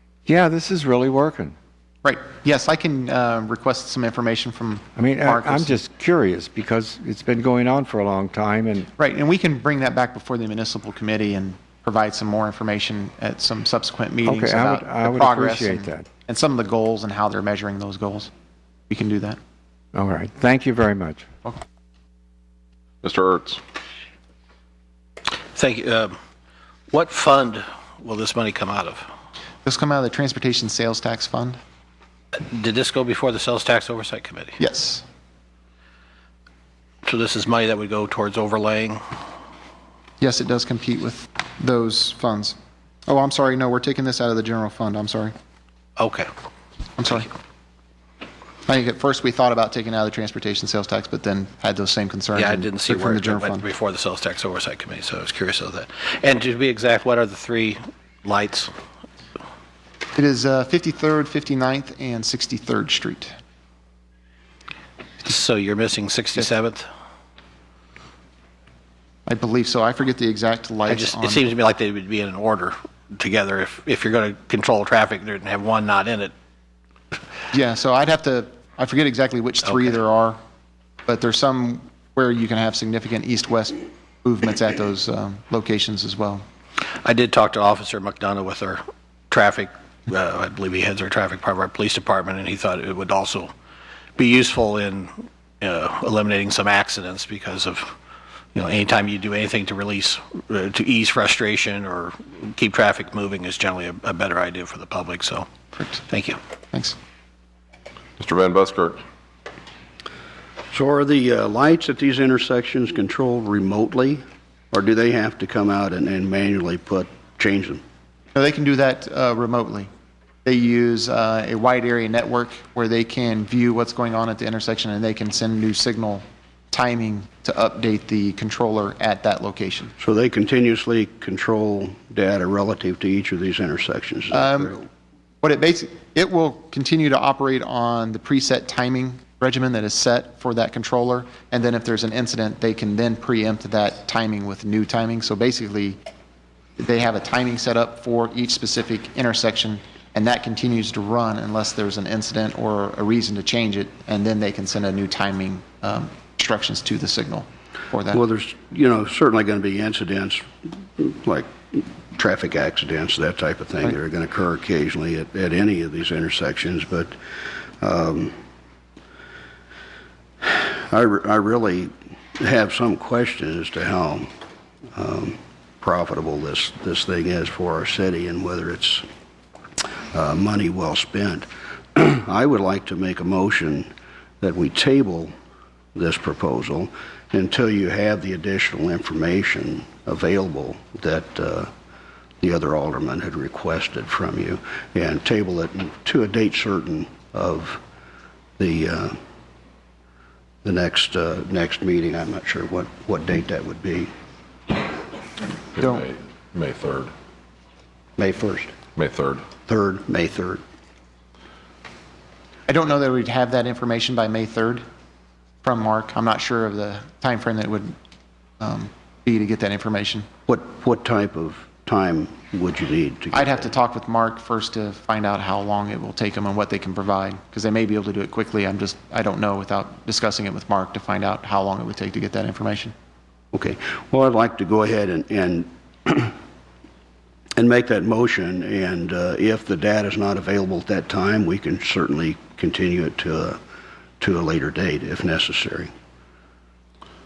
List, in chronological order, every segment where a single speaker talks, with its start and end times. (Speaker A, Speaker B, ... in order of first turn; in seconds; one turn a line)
Speaker A: 0.2-1.5
Speaker B: 2.0-5.8
Speaker A: 5.0-8.9
Speaker B: 9.0-18.3
Speaker A: 14.2-16.1
Speaker B: 18.9-19.4
Speaker A: 19.9-21.2
Speaker C: 23.0-23.6
Speaker D: 25.6-26.2
Speaker D: 26.9-29.1
Speaker B: 29.6-31.6
Speaker D: 32.4-34.6
Speaker B: 34.6-35.0
Speaker D: 37.0-39.0
Speaker B: 40.2-45.3
Speaker D: 46.0-46.3
Speaker B: 47.0-47.3
Speaker B: 48.6-53.6
Speaker D: 52.3-58.7
Speaker B: 60.1-63.3
Speaker D: 65.2-66.8
Speaker B: 69.3-71.5
Speaker D: 70.9-76.3
Speaker B: 77.5-80.4
Speaker D: 79.7-80.0
Speaker B: 81.1-86.4
Speaker D: 87.0-93.5
Speaker D: 94.2-97.9
Speaker D: 98.5-105.5
Speaker D: 106.1-106.4
Speaker C: 108.2-109.0
Speaker E: 110.7-117.8
Speaker B: 118.3-119.9
Speaker B: 120.5-129.9
Speaker E: 130.0-134.9
Speaker B: 134.3-134.7
Speaker B: 135.4-146.0
Speaker B: 146.8-158.2
Speaker E: 158.1-167.1
Speaker E: 167.8-168.4
Speaker E: 170.4-174.3
Speaker E: 174.9-179.1
Speaker E: 180.1-183.9
Speaker E: 184.4-185.3
Speaker E: 185.9-191.7
Speaker E: 192.4-197.8
Speaker E: 198.6-199.2
Speaker E: 200.6-204.1
Speaker C: 205.7-207.1
Speaker B: 205.8-206.0
Speaker E: 208.2-208.7
Speaker C: 208.9-209.4
Speaker E: 209.7-210.6
Speaker B: 212.7-214.8
Speaker B: 215.6-217.9
Speaker B: 218.6-220.3
Speaker E: 220.5-223.7
Speaker B: 223.3-232.9
Speaker E: 233.5-236.4
Speaker E: 237.6-243.6
Speaker E: 244.2-245.9